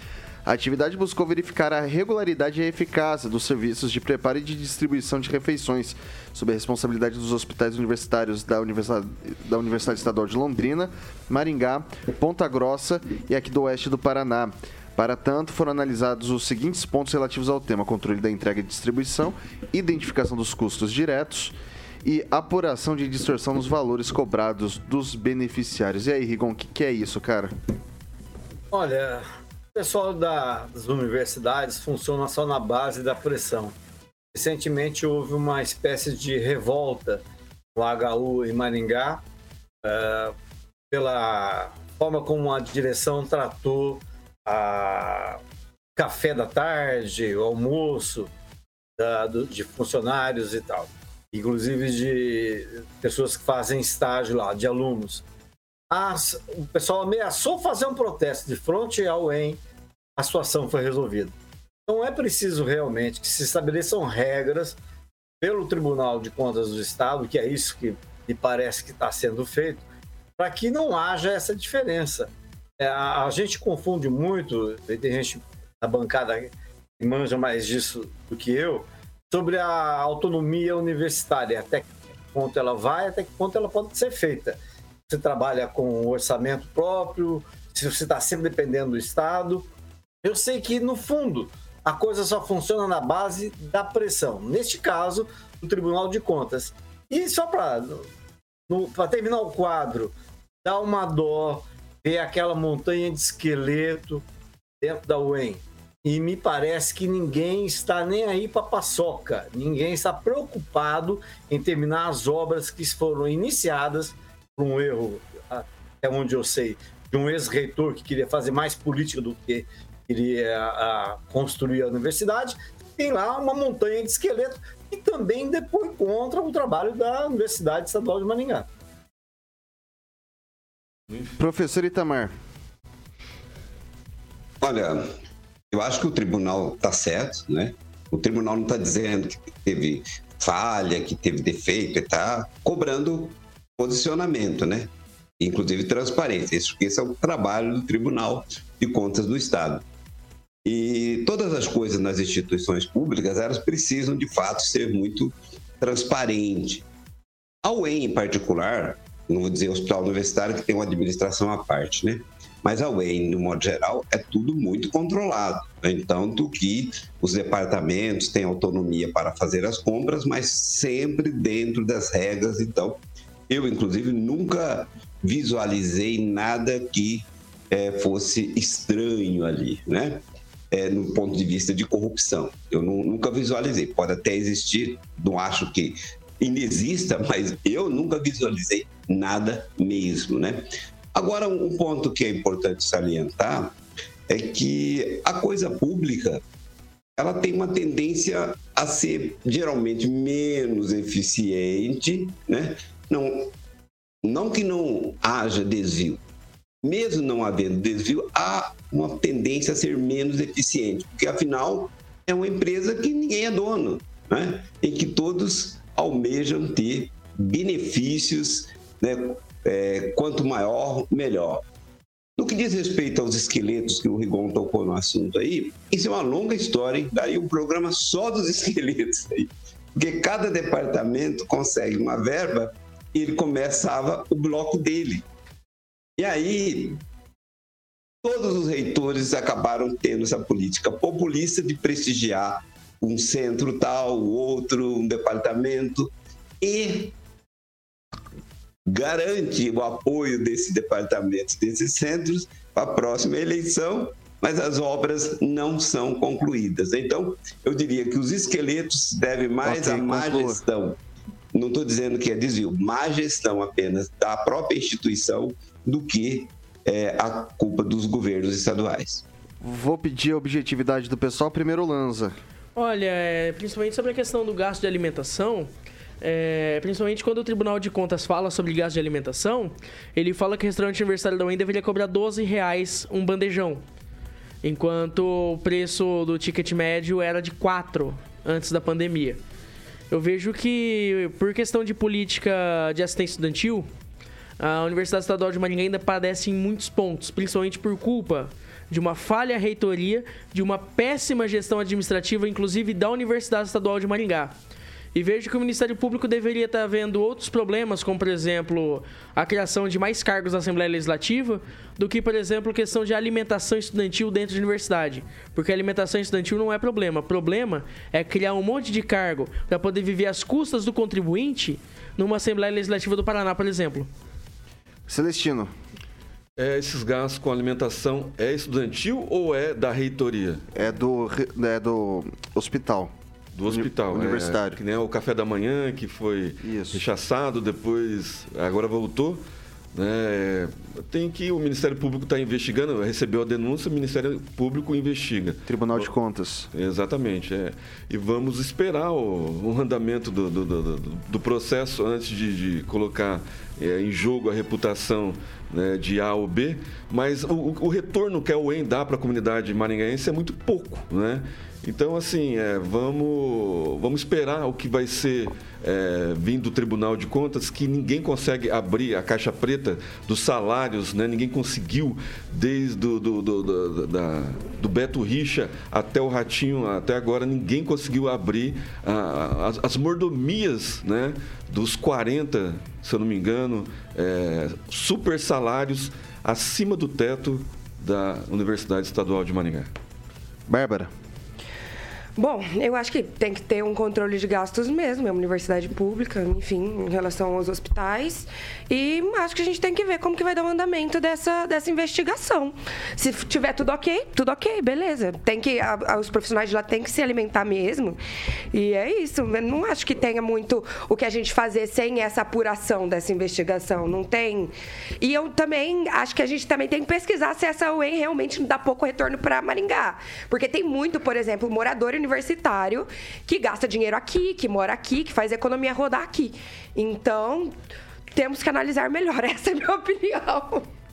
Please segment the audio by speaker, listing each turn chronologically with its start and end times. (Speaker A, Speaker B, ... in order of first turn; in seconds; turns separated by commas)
Speaker A: 0.4-27.5, Speaker B: 28.7-33.7, Speaker B: 34.3-37.2, Speaker B: 37.7-39.2, Speaker B: 39.8-40.4, Speaker B: 40.9-45.4, Speaker B: 46.0-48.3, Speaker B: 49.0-55.2, Speaker B: 55.9-59.6, Speaker B: 60.2-61.3, Speaker B: 61.9-64.8, Speaker B: 65.4-69.8, Speaker B: 70.4-89.7, Speaker B: 90.2-98.1, Speaker B: 98.7-104.2, Speaker B: 104.8-128.7, Speaker A: 131.4-132.3, Speaker C: 134.6-135.0, Speaker C: 135.7-149.8, Speaker C: 150.6-156.8, Speaker C: 157.6-193.7, Speaker C: 194.3-196.4, Speaker C: 197.2-203.5, Speaker C: 204.2-206.2, Speaker C: 206.8-221.6, Speaker C: 222.4-235.2, Speaker C: 236.2-237.0, Speaker C: 238.2-247.1, Speaker C: 248.9-261.0, Speaker A: 259.6-260.6, Speaker C: 261.5-269.2, Speaker A: 269.6-272.3, Speaker D: 272.7-275.7, Speaker D: 276.2-283.8, Speaker D: 284.6-289.4, Speaker D: 290.1-293.9, Speaker D: 294.6-304.5, Speaker D: 305.1-324.1, Speaker A: 325.1-325.7, Speaker E: 326.6-330.6, Speaker A: 330.7-333.1, Speaker E: 333.5-339.4, Speaker A: 333.6-334.8, Speaker A: 336.6-337.1, Speaker E: 339.9-346.1, Speaker A: 345.7-346.7, Speaker E: 346.7-389.9, Speaker A: 390.7-391.1, Speaker F: 392.4-408.2, Speaker F: 408.7-427.7, Speaker F: 428.3-430.9